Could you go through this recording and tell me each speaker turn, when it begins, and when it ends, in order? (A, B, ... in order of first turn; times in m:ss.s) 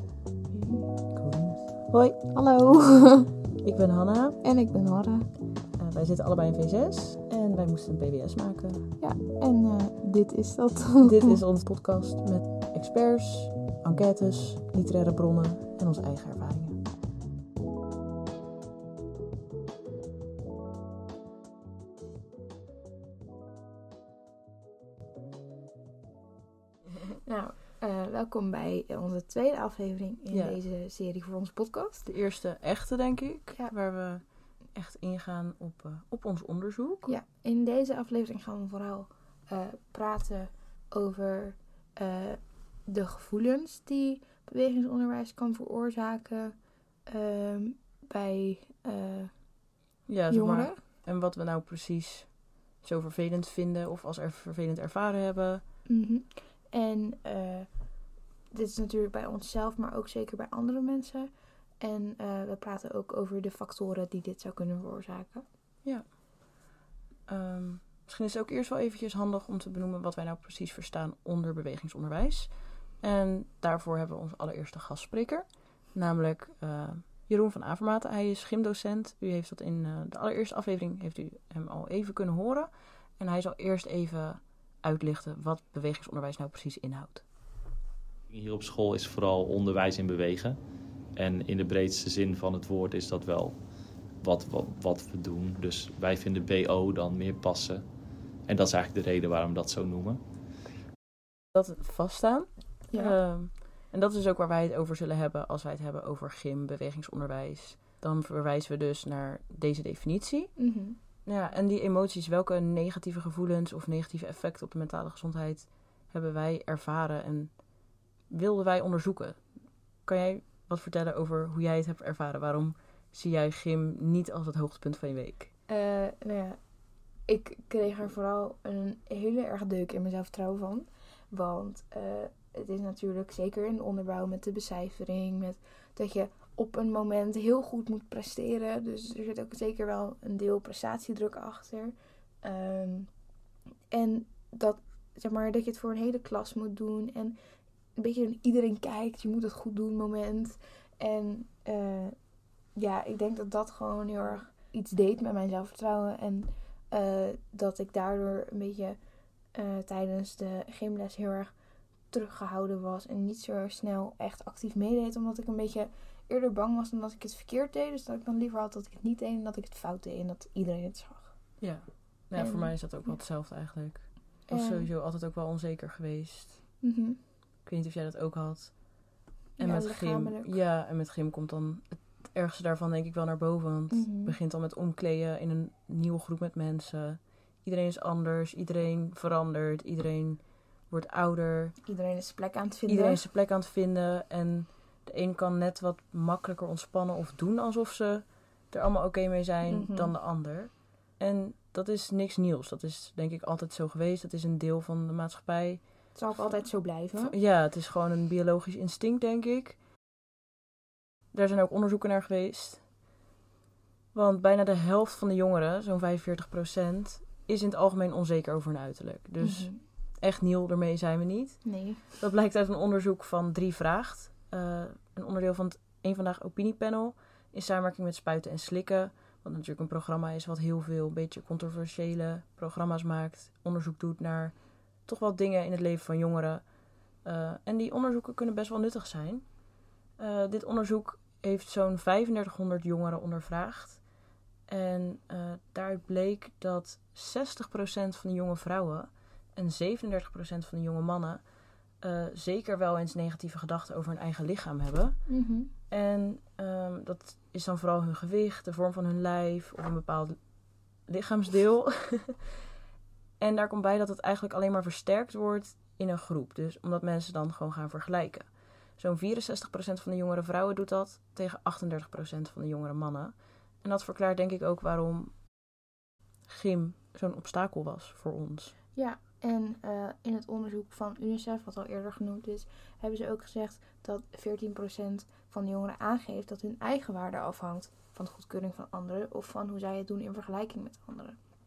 0:00.5-0:01.0 A
0:01.1-0:02.0 B
0:01.9-0:03.3 A
0:03.6-0:04.4 B
0:04.4-0:05.3 A
0:05.8-0:08.9 B
0:09.0-0:11.4 A
0:11.0-0:16.8 B
0:27.2-0:32.1 A
0:30.3-0:30.6 B
0:32.0-0:37.1 B
0:37.0-0:46.5 A
0:47.0-0:49.7 A
0:50.1-0:55.6 B
0:50.3-0:50.8 A
0:55.8-1:05.4 A
1:05.8-1:06.7 B
1:07.3-1:27.3 B
1:28.3-1:40.2 C
1:41.5-1:50.7 B
1:42.9-1:43.2 A
1:50.6-1:51.0 A
1:51.2-2:05.5 B
2:05.7-2:23.3 A
2:23.9-2:27.4 A
2:27.9-2:39.0 A
2:39.5-2:41.6 A
2:42.1-2:51.6 A
2:51.6-2:56.7 B
2:52.3-2:53.2 A
2:54.5-2:54.9 A
2:56.8-2:57.2 A
2:57.6-3:11.8 B
2:59.6-3:00.6 A
3:03.9-3:04.3 A
3:11.8-3:13.2 A
3:12.9-3:29.8 B
3:19.6-3:20.1 A
3:26.1-3:27.3 A
3:31.3-3:33.0 B
3:34.1-3:56.7 B
3:39.4-3:39.8 A
3:41.6-3:42.0 A
3:57.2-3:59.6 B
4:00.2-4:04.1 B
4:04.7-4:22.4 B
4:15.3-4:15.7 A
4:23.4-4:35.5 B
4:36.5-4:38.7 B
4:38.9-4:51.4 A